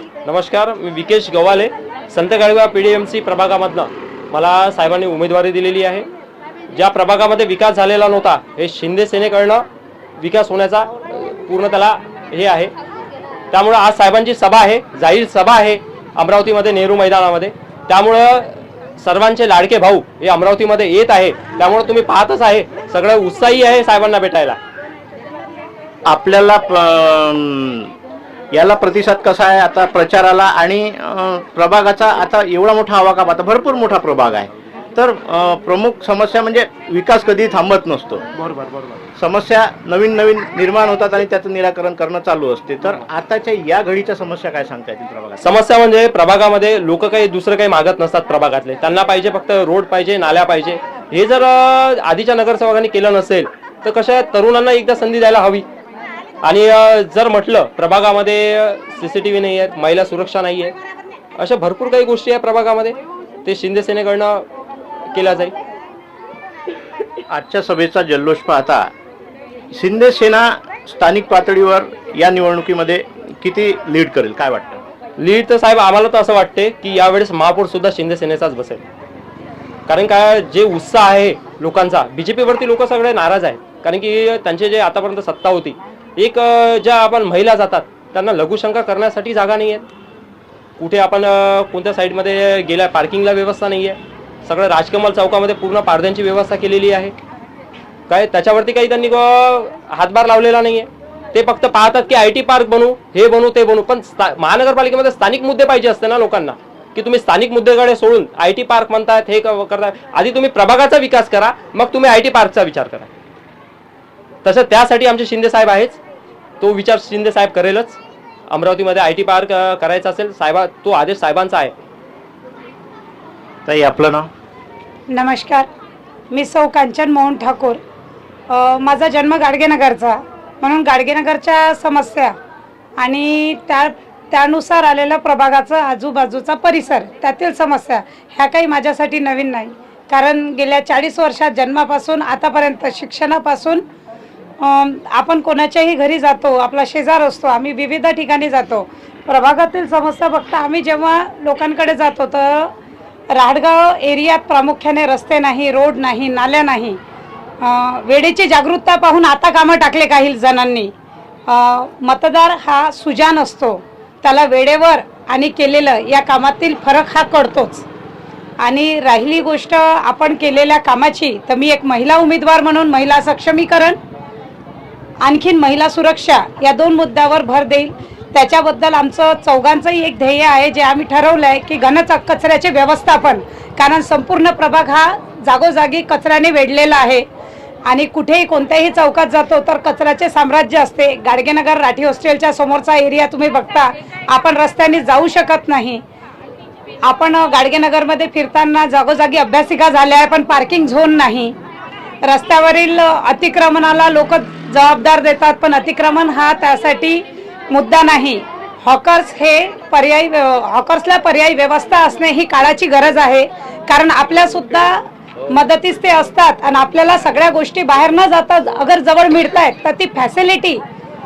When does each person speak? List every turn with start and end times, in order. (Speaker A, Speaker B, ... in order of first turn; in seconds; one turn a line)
Speaker A: 0.3-6.1
Speaker A: 6.7-9.7
Speaker A: 10.2-12.7
Speaker A: 13.5-24.6
Speaker B: 26.1-27.9
Speaker B: 28.5-38.3
Speaker A: 38.4-39.0
Speaker B: 39.2-45.5
Speaker A: 45.4-55.7
Speaker A: 56.4-60.8
Speaker A: 61.4-64.5
Speaker A: 65.1-65.5
Speaker B: 67.3-68.9
Speaker B: 69.7-74.8
Speaker A: 75.2-78.8
Speaker A: 79.9-89.8
Speaker A: 90.8-97.2
Speaker A: 98.1-113.1
Speaker A: 114.4-116.0
Speaker A: 116.6-118.0
Speaker A: 118.5-121.7
Speaker B: 123.7-124.3
Speaker C: 125.1-125.7
Speaker C: 126.3-127.8
Speaker C: 128.5-132.3
Speaker C: 133.0-143.8
Speaker C: 144.6-152.7
Speaker C: 153.3-157.0
Speaker C: 157.6-160.9
Speaker C: 161.5-167.9
Speaker C: 168.6-174.0
Speaker C: 175.2-187.2
Speaker C: 187.9-196.0
Speaker C: 197.0-201.6
Speaker C: 202.2-220.8